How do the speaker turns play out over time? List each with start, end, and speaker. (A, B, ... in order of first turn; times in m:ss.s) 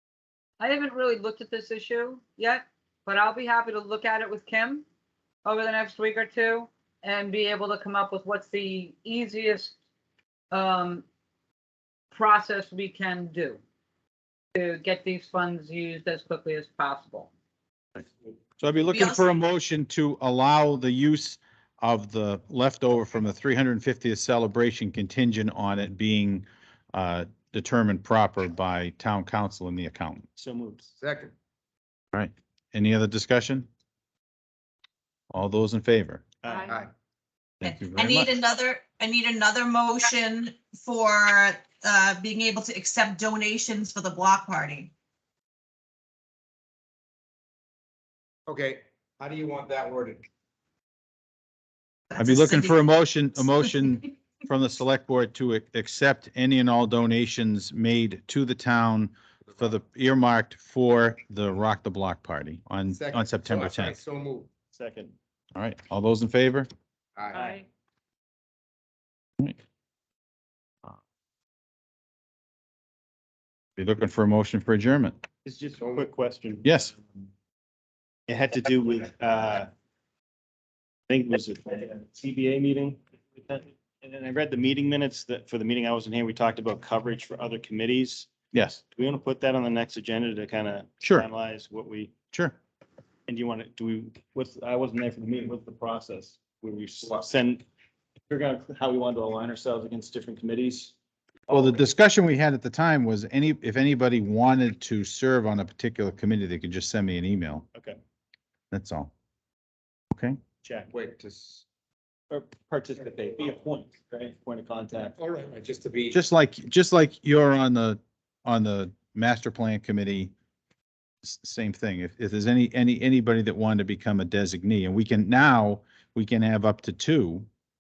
0:00.6-0:04.8 A
0:05.4-0:09.7 A
0:10.5-0:11.0 A
0:12.1-0:13.6 A
0:14.6-0:17.3 A
0:18.6-0:30.3 B
0:18.9-0:19.3 C
0:30.4-0:30.9 D
0:31.0-0:31.3 E
0:32.1-0:33.7 B
0:35.3-0:36.2 B
0:36.4-0:36.8 D
0:36.5-0:36.8 A
0:37.6-0:38.4 B
0:37.6-0:44.9 C
0:48.5-0:50.2 E
0:52.1-0:52.9 C
0:52.2-1:04.0 B
1:02.9-1:04.5 E
1:04.7-1:05.2 D
1:05.6-1:06.7 B
1:07.2-1:07.6 E
1:07.3-1:07.7 A
1:13.8-1:15.2 B
1:15.4-1:17.3 D
1:15.8-1:16.1 E
1:16.6-1:16.9 B
1:18.3-1:19.7 D
1:21.1-1:28.3 D
1:28.5-1:28.8 B
1:28.9-1:32.1 D
1:31.0-1:31.3 B
1:33.3-1:37.6 D
1:38.3-1:40.9 D
1:41.5-1:47.7 B
1:47.7-1:48.0 D
1:48.7-1:49.1 B
1:50.1-1:50.4 B
1:50.6-1:50.9 D
1:50.9-1:51.6 E
1:52.3-1:55.2 D
1:55.2-1:56.2 E
1:56.1-2:00.3 B
2:01.2-2:07.5 B